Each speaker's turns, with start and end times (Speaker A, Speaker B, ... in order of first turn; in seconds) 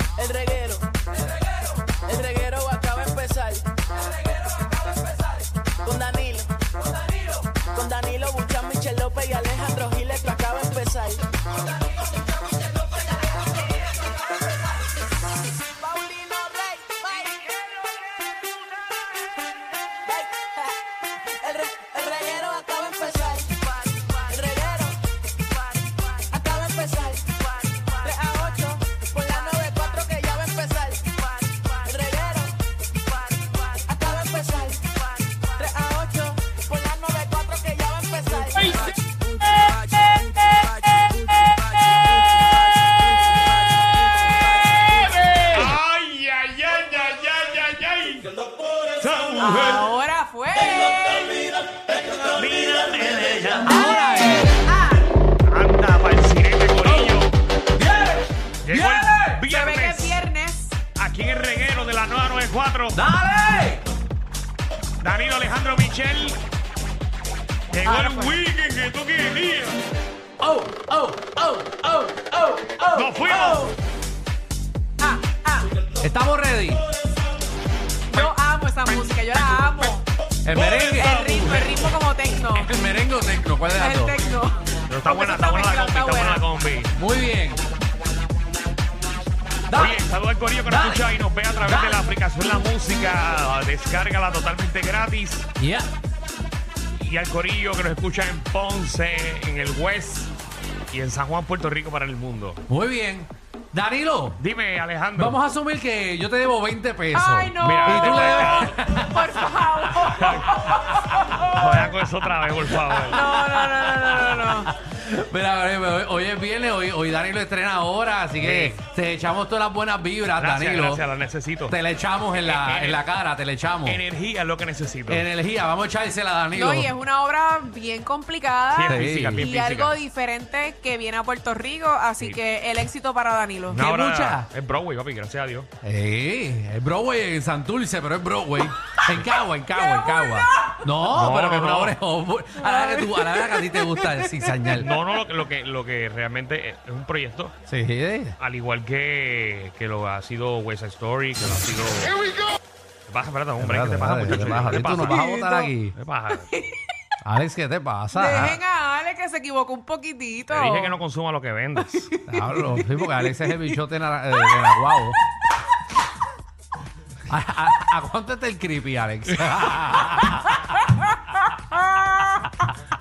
Speaker A: 0.2-0.9, 1.9-3.9, 5.7-6.7, 7.6-11.3, 15.7-17.6, 20.1-25.0, 25.8-32.6, 33.4-38.9, 39.5-44.8
Speaker B: 45.2-48.4, 49.0-49.9, 52.0-53.9, 55.5-57.3, 58.6-60.2, 61.0-63.0, 65.0-66.4, 67.7-69.8, 72.9-73.7, 84.9-86.9, 89.7-95.5, 97.0-100.3, 100.9-102.6, 104.4-105.4, 107.6-108.8, 110.1-110.5, 111.4-113.3, 118.4-118.8, 120.4-121.8, 122.4-123.0, 123.8-125.3, 128.7-130.0, 133.7-135.7, 141.1-142.0, 144.7-147.5, 148.4-152.2, 153.1-155.2, 155.9-156.5, 160.5-162.1
Speaker C: 49.4-51.6, 53.7-55.1, 59.5-60.8, 67.8-68.4, 75.0-75.7, 78.1-80.0, 80.5-82.7, 83.7-86.5, 107.1-111.7, 113.0-114.7, 126.5-133.8, 139.9-140.8, 142.6-144.4, 154.9-155.7, 156.4-156.8, 158.1-161.0, 161.9-163.7, 164.4-165.0, 170.6-172.7
Speaker D: 53.6-54.6, 56.9-57.2, 57.7-59.4, 62.9-63.9, 70.4-73.7, 76.0-76.8, 80.4-81.9, 82.5-84.2, 86.9-87.6, 89.7-90.0, 90.7-91.0, 91.6-92.0, 95.6-95.9, 102.7-104.4, 105.2-111.9, 112.5-121.0, 121.7-124.0, 125.1-126.9, 128.9-129.5, 133.7-134.5, 135.8-144.9, 147.7-148.4, 153.6-156.0, 157.2-158.6, 162.3-165.2, 167.3-170.6